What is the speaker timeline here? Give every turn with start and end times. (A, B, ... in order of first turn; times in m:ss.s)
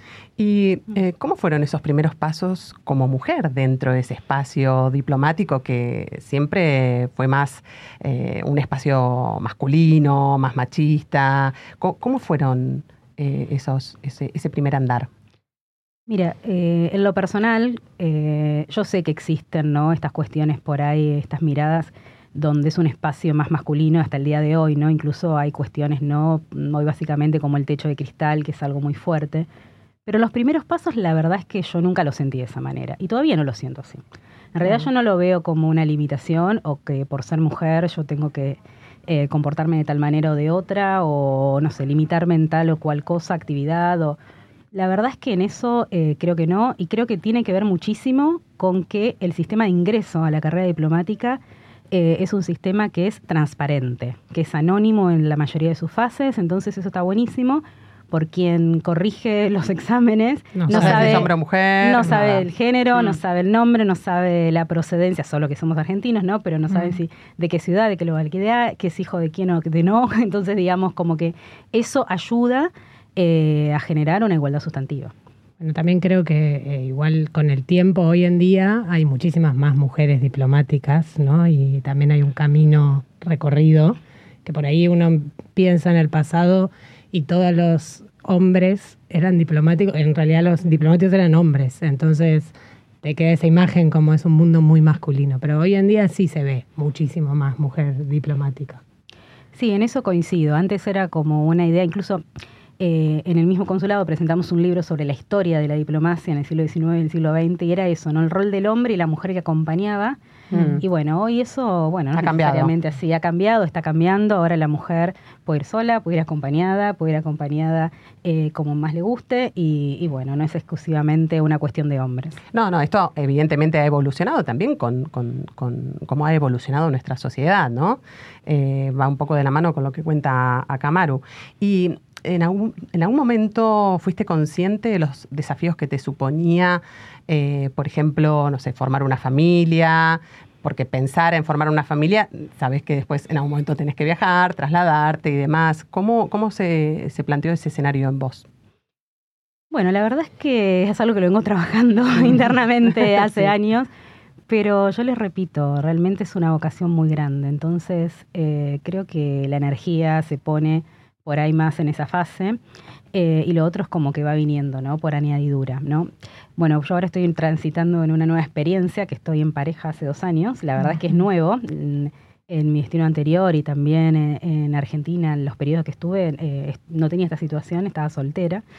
0:00.4-0:15.1 A
0:16.1-0:29.5 B
0:30.0-0:34.0 B
0:34.6-0:44.2 B
0:34.6-0:34.9 C
0:44.7-1:01.3 B
1:00.6-1:01.3 C
1:00.7-1:02.5 A
1:01.8-1:15.1 B
1:06.7-1:07.0 C
1:15.6-1:38.8 C
1:39.5-1:42.2 B
1:42.8-1:50.2 B
1:50.5-1:50.8 A
1:50.8-2:02.4 B
1:52.2-1:52.7 A
2:02.5-2:28.4 A
2:29.7-2:33.9 B
2:34.5-2:42.6 B
2:43.1-2:58.6 B
2:50.8-2:51.2 C